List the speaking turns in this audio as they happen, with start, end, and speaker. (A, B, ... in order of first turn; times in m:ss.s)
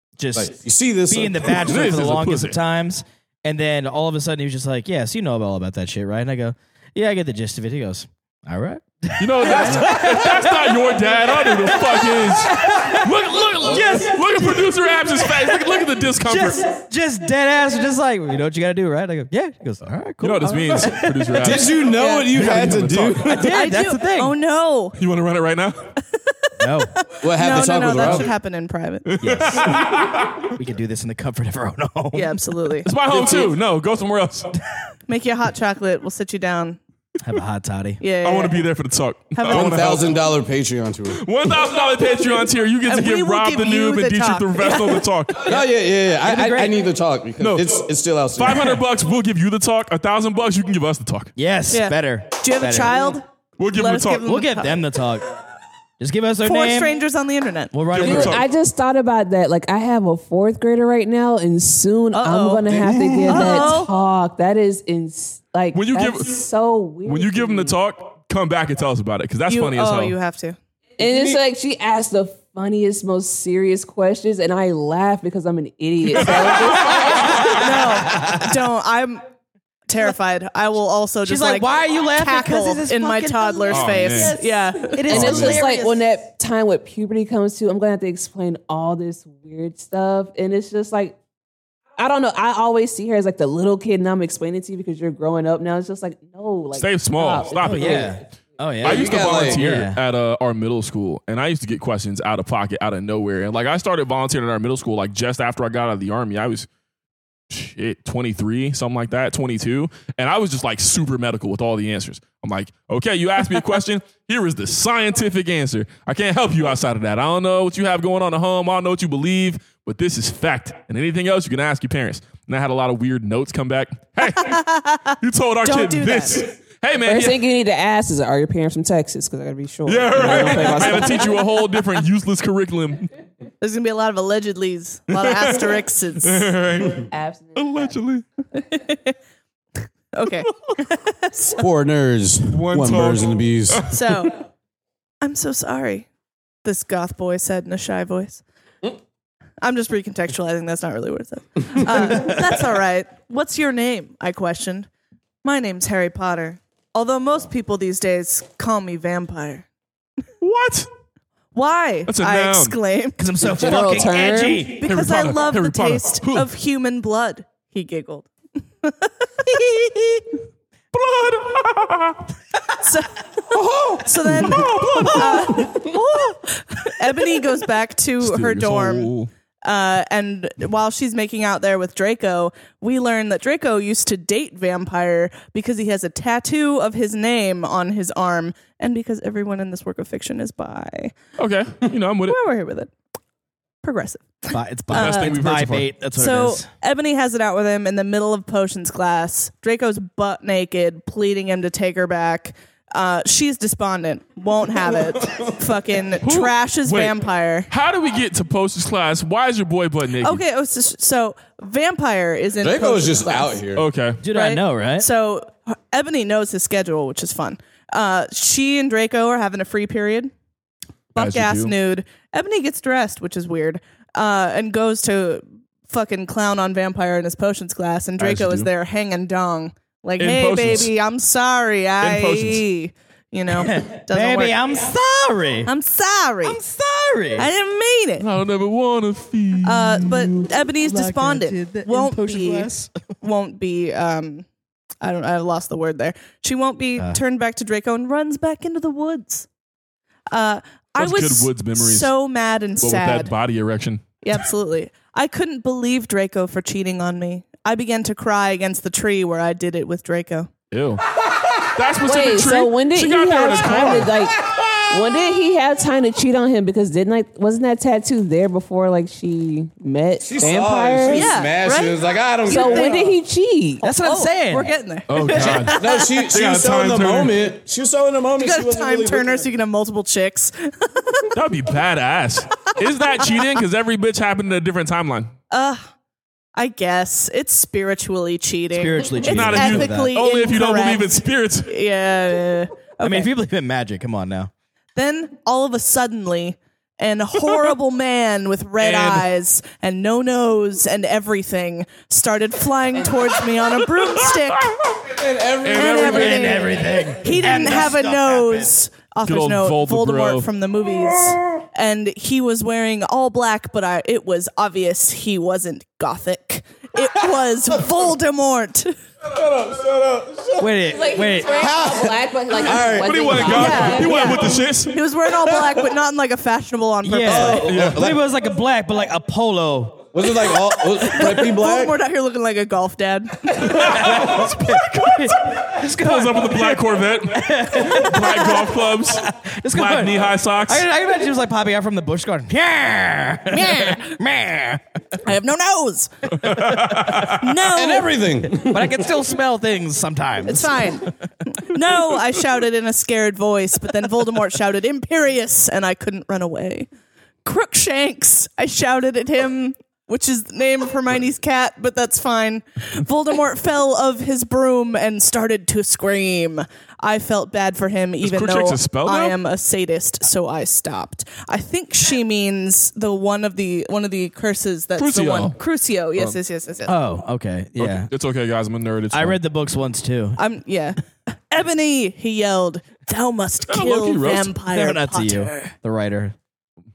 0:00.2-0:00.6 A
0:00.4-0:01.6 B
0:01.1-0:10.8 A
0:01.5-0:02.6 C
0:09.2-0:16.6 C
0:11.4-0:13.1 A
0:13.6-0:14.0 B
0:13.6-0:21.1 A
0:20.2-0:21.8 C
0:20.5-0:21.1 D
0:21.4-0:23.5 B
0:21.9-0:22.3 D
0:22.3-0:23.3 C
0:23.3-0:24.4 A
0:23.4-0:25.0 D
0:25.0-0:25.8 C
0:26.1-0:26.5 D
0:26.6-0:26.9 A
0:27.0-0:29.1 D
0:27.2-0:28.3 B
0:29.1-0:30.5 C
0:29.2-0:29.9 A
0:30.5-0:32.4 A
0:32.1-0:33.5 D
0:32.8-0:34.6 C
0:35.1-0:36.8 D
0:37.2-0:38.0 A
0:38.0-0:38.6 D
0:38.2-0:40.1 C
0:39.4-0:39.8 D
0:39.5-0:41.2 B
0:41.1-0:45.5 C
0:42.9-0:45.1 D
0:45.4-0:48.8 B
0:46.2-0:46.8 A
0:47.4-0:51.3 C
0:51.4-0:53.2 A
0:51.7-0:54.8 D
0:53.6-0:54.4 C
0:54.2-0:55.3 A
0:56.0-0:57.0 A
0:56.4-0:57.7 D
0:57.7-0:58.4 A
0:57.9-0:58.5 C
0:58.0-1:07.8 E
1:02.1-1:03.9 D
1:02.7-1:03.2 B
1:05.7-1:06.4 C
1:07.0-1:10.2 C
1:09.5-1:10.6 D
1:11.0-1:17.6 E
1:11.0-1:11.4 B
1:16.2-1:17.2 C
1:17.4-1:19.2 D
1:17.4-1:18.5 A
1:19.9-1:25.4 D
1:21.2-1:26.0 A
1:23.7-1:24.3 C
1:25.0-1:31.2 E
1:25.1-1:25.6 C
1:32.0-1:38.1 E
1:36.8-1:38.1 C
1:37.6-1:40.0 A
1:38.8-1:46.7 C
1:38.8-1:39.6 B
1:47.5-2:04.6 C
2:04.4-2:05.1 D
2:05.2-2:07.4 C
2:05.6-2:06.4 D
2:07.0-2:11.4 E
2:09.9-2:13.1 C
2:13.6-2:16.5 D
2:15.1-2:18.2 C
2:16.9-2:17.9 E
2:18.6-2:19.2 D
2:20.1-2:21.6 D
2:21.6-2:23.9 B
2:22.5-2:24.3 C
2:23.9-2:24.4 D
2:25.2-2:26.1 D
2:26.6-2:28.4 D
2:29.6-2:34.9 D
2:35.4-2:39.6 D
2:40.4-2:40.9 C
2:41.5-2:43.2 D
2:42.1-2:42.8 C
2:43.2-2:44.9 A
2:43.6-2:44.7 E
2:44.7-2:48.3 D
2:44.8-2:46.5 C
2:48.8-2:50.2 D
2:50.9-2:52.3 C
2:52.8-2:53.2 D
2:53.5-2:55.7 C
2:54.0-2:59.1 D
2:58.2-2:59.3 C
2:59.6-3:11.2 D
3:11.4-3:12.4 C
3:12.2-3:12.9 D
3:13.8-3:15.3 D
3:14.5-3:16.7 A
3:14.9-3:15.9 C
3:16.2-3:27.7 D
3:26.2-3:27.2 C
3:27.7-3:30.4 C
3:30.2-3:33.6 D
3:32.6-3:33.9 B
3:33.8-3:34.2 C
3:34.2-3:35.1 A
3:34.3-3:40.3 D
3:41.2-3:54.6 D
3:41.2-3:41.7 C
3:48.2-3:48.7 C
3:50.2-3:50.9 C
3:52.0-3:52.6 C
3:53.5-3:55.7 A
3:55.7-3:56.6 D
3:56.4-3:57.5 A
3:57.4-3:58.3 D
3:58.2-4:00.3 C
3:59.6-4:02.7 D
4:00.0-4:03.1 A
4:03.2-4:04.5 D
4:05.0-4:09.5 D
4:10.3-4:13.3 D
4:11.0-4:12.1 C
4:12.8-4:14.0 C
4:14.2-4:20.5 D
4:20.7-4:21.0 C
4:21.8-4:24.2 C
4:22.0-4:31.4 E
4:30.2-4:33.1 B
4:31.1-4:33.1 D
4:32.4-4:33.8 E
4:33.8-4:35.3 A
4:33.9-4:36.1 D
4:35.1-4:37.4 C
4:35.4-4:39.5 B
4:38.4-4:41.3 D
4:41.3-4:45.3 C
4:45.5-4:45.8 D
4:46.6-4:53.3 D
4:48.7-4:50.1 A
4:49.2-4:51.7 C
4:53.0-4:54.5 A
4:55.0-5:04.8 D
4:58.8-4:59.2 C
5:04.3-5:04.8 C
5:05.1-5:06.8 B
5:05.6-5:06.4 C
5:05.7-5:19.0 D
5:06.1-5:08.8 A
5:09.3-5:10.5 C
5:19.3-5:20.7 B
5:20.6-5:21.6 A
5:20.9-5:24.4 E
5:21.5-5:23.8 B
5:22.6-5:25.0 C
5:23.5-5:27.7 D
5:27.0-5:30.1 A
5:27.2-5:28.2 B
5:27.6-5:28.1 C
5:30.1-5:32.0 B
5:30.4-5:34.2 D
5:33.6-5:40.8 C
5:33.7-5:38.6 A
5:39.2-5:44.8 A
5:43.5-5:44.2 D
5:45.2-5:48.2 D
5:46.4-5:47.5 C
5:47.6-5:49.0 B
5:48.5-5:51.1 A
5:50.4-5:56.9 D
5:57.4-6:17.0 D
6:08.2-6:09.4 C
6:15.0-6:15.6 C
6:16.9-6:18.1 A
6:17.8-6:19.4 C
6:19.1-6:20.4 A
6:20.4-6:25.7 D
6:23.7-6:24.5 C
6:24.7-6:26.4 A